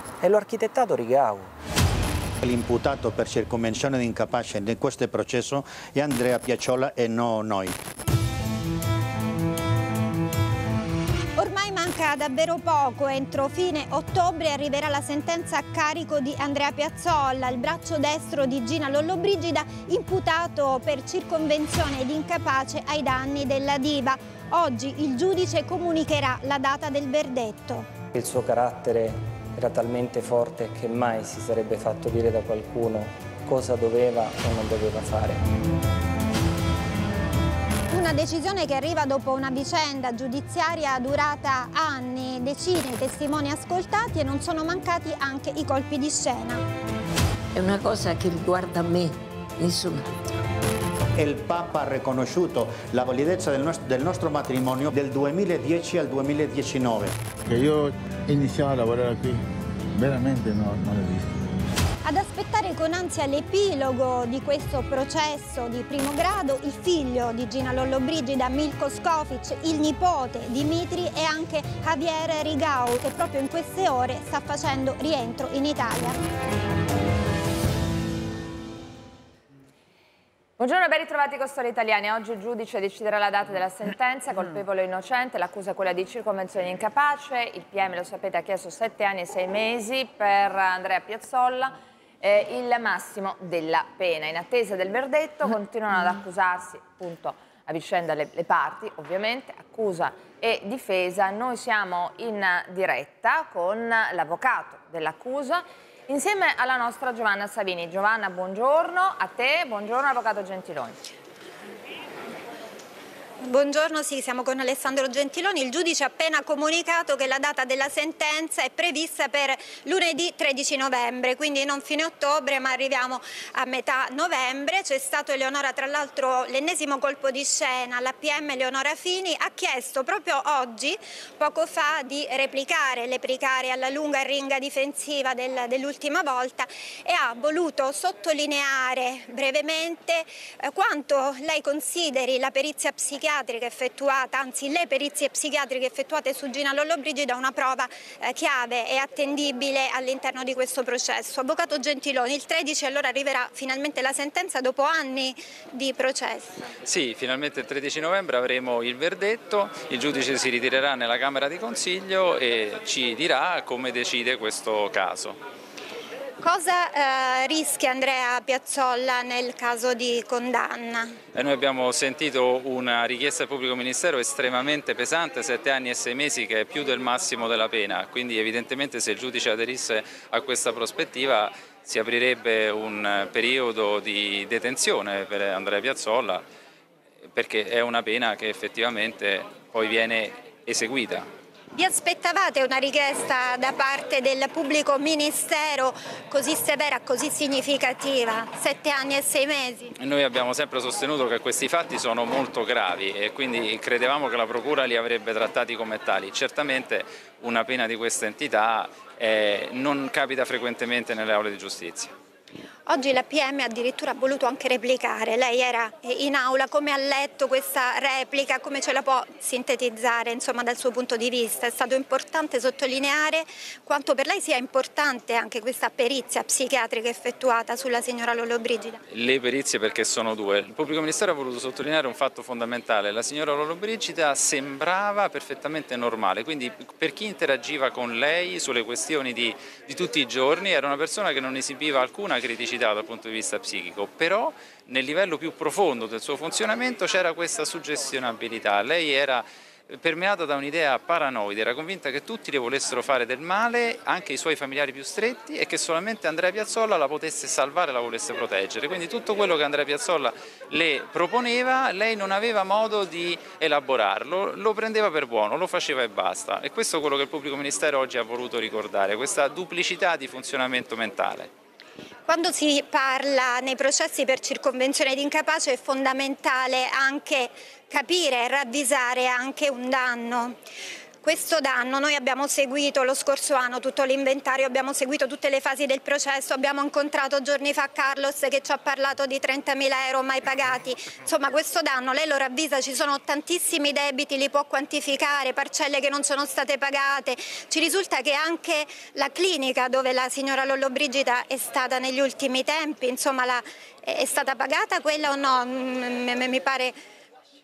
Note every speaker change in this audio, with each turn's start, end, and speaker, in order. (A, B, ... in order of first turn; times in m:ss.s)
0:00.2-0:01.5 A
0:02.4-0:07.8 B
0:11.4-0:27.9 C
0:28.1-0:35.4 A
0:37.9-0:46.6 C
0:47.5-0:50.1 D
0:51.1-0:57.2 B
0:57.5-0:59.4 E
1:00.0-1:01.5 E
1:02.0-1:16.2 C
1:20.6-1:51.0 F
1:53.4-2:36.7 C
2:36.8-2:45.4 G
2:46.4-2:51.2 C
2:51.4-3:06.4 G
3:07.3-3:11.3 G
3:11.8-3:19.9 C
3:20.0-3:32.1 G
3:32.9-3:49.0 C
3:49.1-4:31.5 G
4:32.3-4:40.6 C
4:41.2-5:07.0 C